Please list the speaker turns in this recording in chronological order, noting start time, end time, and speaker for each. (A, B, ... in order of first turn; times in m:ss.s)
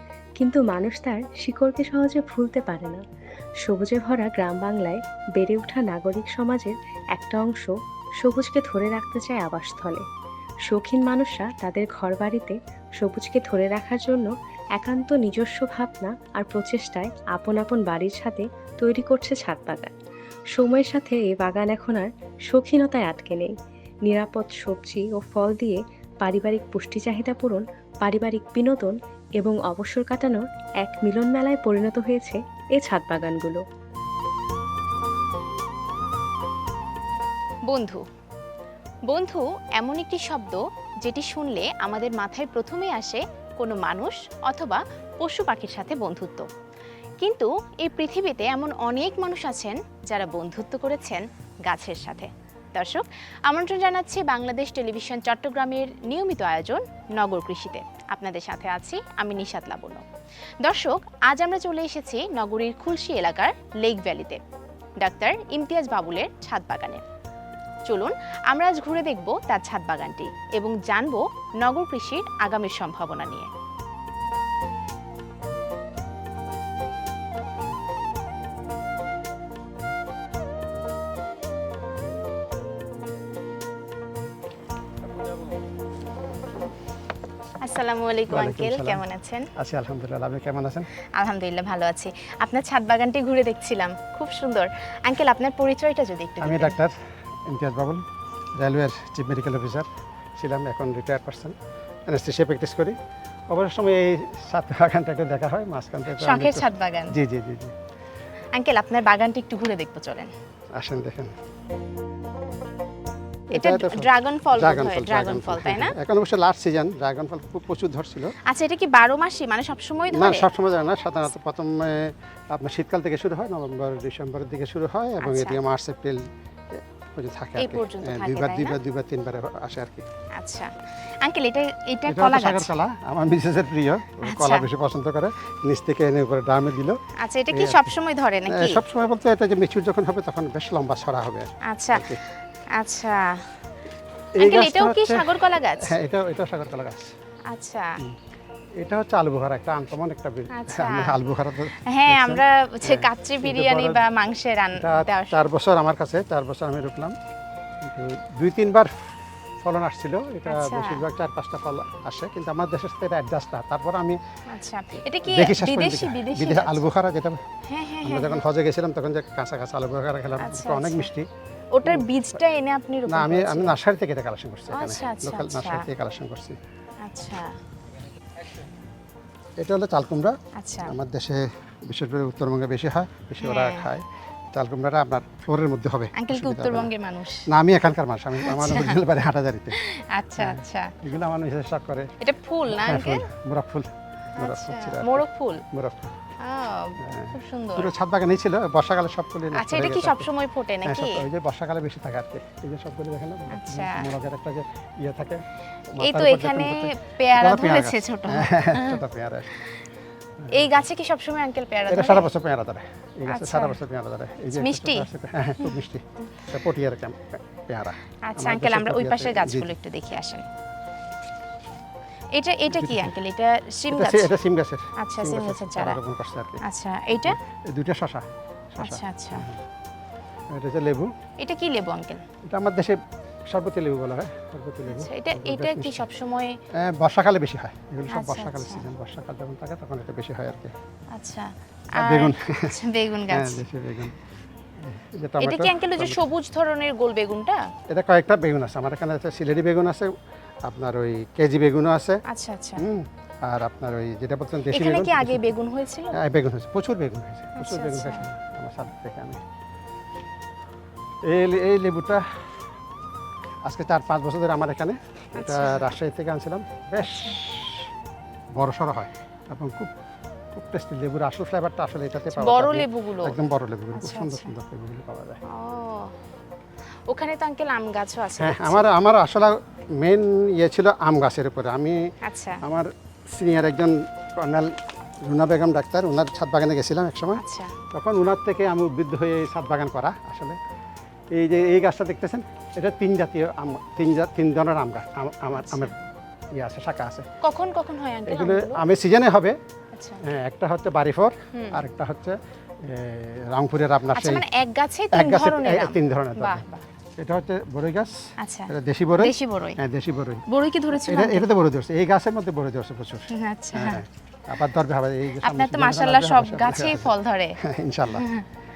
0:00.4-0:03.0 A
0:03.6-0:10.0 A
0:10.7-0:19.9 A
0:20.5-0:23.5 A
0:24.0-0:33.6 A
0:37.7-0:38.0 B
0:39.1-0:46.5 B
0:47.2-1:00.0 B
1:00.6-1:04.4 B
1:05.0-1:07.0 B
1:07.9-1:13.5 B
1:27.6-1:29.5 B
1:28.3-1:29.0 C
1:29.6-1:30.9 C
1:31.2-1:36.8 B
1:36.4-1:36.9 C
1:37.5-1:38.0 C
1:38.6-1:39.9 C
1:40.4-1:41.5 C
1:42.1-1:43.0 C
1:43.5-1:47.7 C
1:46.2-1:47.2 B
1:48.5-1:50.3 B
1:50.8-1:51.3 C
1:53.5-1:58.3 C
1:53.5-1:55.9 B
1:58.5-2:00.4 B
2:00.1-2:06.2 C
2:05.2-2:05.6 B
2:07.1-2:10.0 C
2:07.6-2:08.8 B
2:10.4-2:12.7 B
2:12.1-2:17.0 C
2:14.2-2:14.7 B
2:17.2-2:18.8 B
2:17.5-2:17.9 C
2:18.5-2:22.2 C
2:21.7-2:22.0 B
2:22.8-2:23.5 B
2:24.4-2:27.1 C
2:24.4-2:25.9 B
2:27.5-2:27.9 B
2:28.8-2:34.0 C
2:30.5-2:31.2 B
2:31.8-2:35.5 B
2:34.7-2:37.1 C
2:37.8-2:44.2 C
2:40.5-2:41.0 B
2:44.5-2:46.9 B
2:45.2-2:47.4 C
2:47.7-2:48.4 B
2:48.0-2:51.3 C
2:50.4-2:51.1 B
2:51.7-2:53.7 B
2:53.1-2:56.6 C
2:54.7-2:55.8 B
2:57.0-2:57.5 B
2:59.6-3:00.3 C
3:00.6-3:00.9 B
3:00.8-3:06.9 C
3:03.4-3:03.9 B
3:06.2-3:07.4 B
3:07.5-3:09.8 C
3:08.4-3:09.0 B
3:09.8-3:10.9 B
3:10.4-3:12.1 C
3:12.2-3:13.3 B
3:12.7-3:16.1 C
3:14.4-3:15.6 B
3:16.4-3:17.9 B
3:17.0-3:20.3 C
3:19.5-3:21.2 B
3:20.8-3:25.4 C
3:23.5-3:24.1 B
3:25.9-3:29.5 C
3:26.0-3:29.0 B
3:30.4-3:30.7 C
3:30.5-3:32.3 B
3:31.9-3:39.7 C
3:33.3-3:33.8 B
3:34.6-3:35.0 B
3:38.2-3:40.4 B
3:42.3-3:44.3 B
3:42.7-3:43.1 C
3:43.9-3:46.6 C
3:45.0-3:46.0 B
3:46.6-3:47.4 B
3:47.2-3:49.6 C
3:48.8-3:49.4 B
3:50.5-3:51.1 C
3:51.4-3:52.2 B
3:52.5-3:56.0 C
3:54.9-3:56.6 B
3:56.8-4:00.7 C
3:58.1-3:58.9 B
4:01.2-4:03.6 B
4:02.0-4:02.7 C
4:03.3-4:04.1 C
4:04.8-4:06.2 C
4:05.4-4:07.6 B
4:07.9-4:10.1 C
4:10.6-4:12.2 C
4:12.3-4:12.8 B
4:12.8-4:15.5 C
4:14.7-4:16.2 B
4:16.2-4:19.4 C
4:17.6-4:18.2 B
4:21.2-4:22.2 C
4:23.6-4:27.9 C
4:25.4-4:25.9 B
4:27.0-4:27.4 B
4:28.6-4:29.9 C
4:30.5-4:35.4 C
4:32.3-4:33.4 B
4:34.0-4:34.5 B
4:35.5-4:36.1 B
4:37.1-4:38.8 B
4:38.4-4:42.0 C
4:42.2-4:42.6 B
4:42.6-4:44.8 C
4:45.3-4:47.4 C
4:47.4-4:47.8 B
4:47.9-4:50.6 C
4:51.3-4:55.9 C
4:55.5-4:55.9 B
4:56.6-4:57.2 C
4:57.4-4:58.8 B
4:58.3-4:59.6 C
4:59.9-5:00.2 B
5:00.3-5:04.4 C
5:01.5-5:01.8 B
5:04.1-5:06.8 B
5:05.1-5:06.6 C
5:07.2-5:08.2 C
5:08.4-5:09.8 B
5:08.7-5:10.4 C
5:10.5-5:11.4 B
5:11.0-5:18.3 C
5:13.3-5:14.0 B
5:15.4-5:17.6 B
5:18.1-5:18.4 B